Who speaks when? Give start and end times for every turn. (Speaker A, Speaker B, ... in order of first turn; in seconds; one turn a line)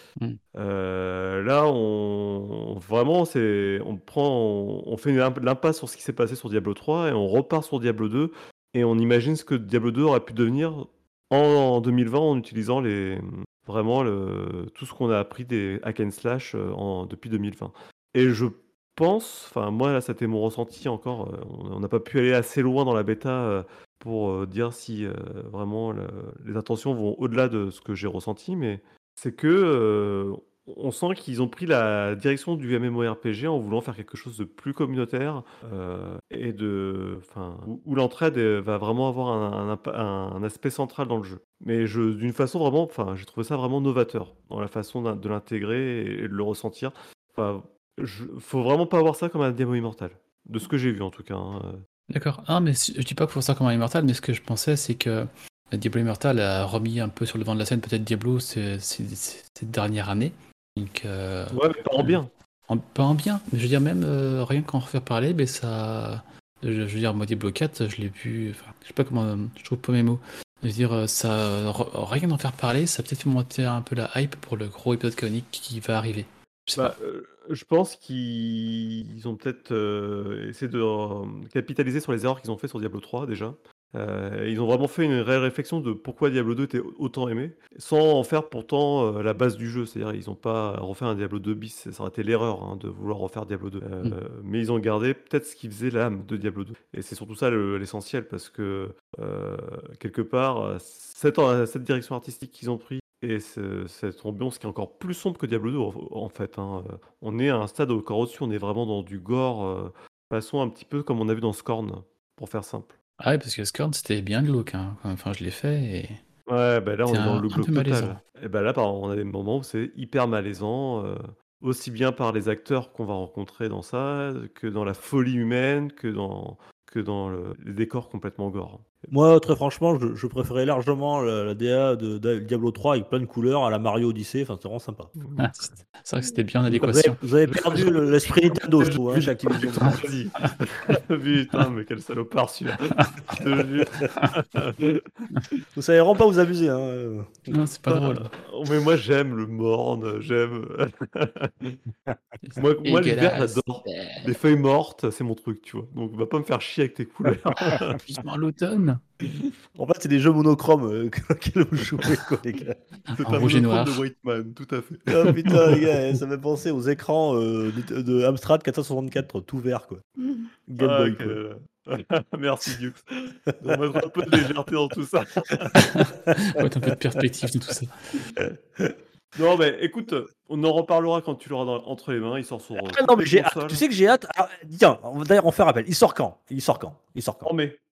Speaker A: 0.5-51.8
Speaker B: 52.1-76.9
Speaker A: 61.5-62.3
Speaker A: 76.8-112.9
Speaker B: 113.2-116.2
Speaker A: 116.5-129.1
Speaker B: 117.1-118.2
Speaker C: 129.1-135.1
Speaker A: 135.2-135.5
Speaker B: 135.4-137.2
Speaker C: 136.7-140.1
Speaker A: 137.5-137.9
Speaker A: 138.8-145.0
Speaker C: 145.8-147.6
Speaker B: 147.5-148.3
Speaker A: 147.9-151.8
Speaker B: 152.4-154.2
Speaker A: 152.6-158.0
Speaker B: 157.8-159.0
Speaker C: 159.8-162.8
Speaker B: 163.1-164.0
Speaker A: 163.1-165.8
Speaker C: 165.1-170.1
Speaker C: 170.7-171.4
Speaker A: 170.8-175.8
Speaker B: 175.8-177.9
Speaker A: 179.3-183.8
Speaker C: 182.8-187.5
Speaker A: 187.4-187.8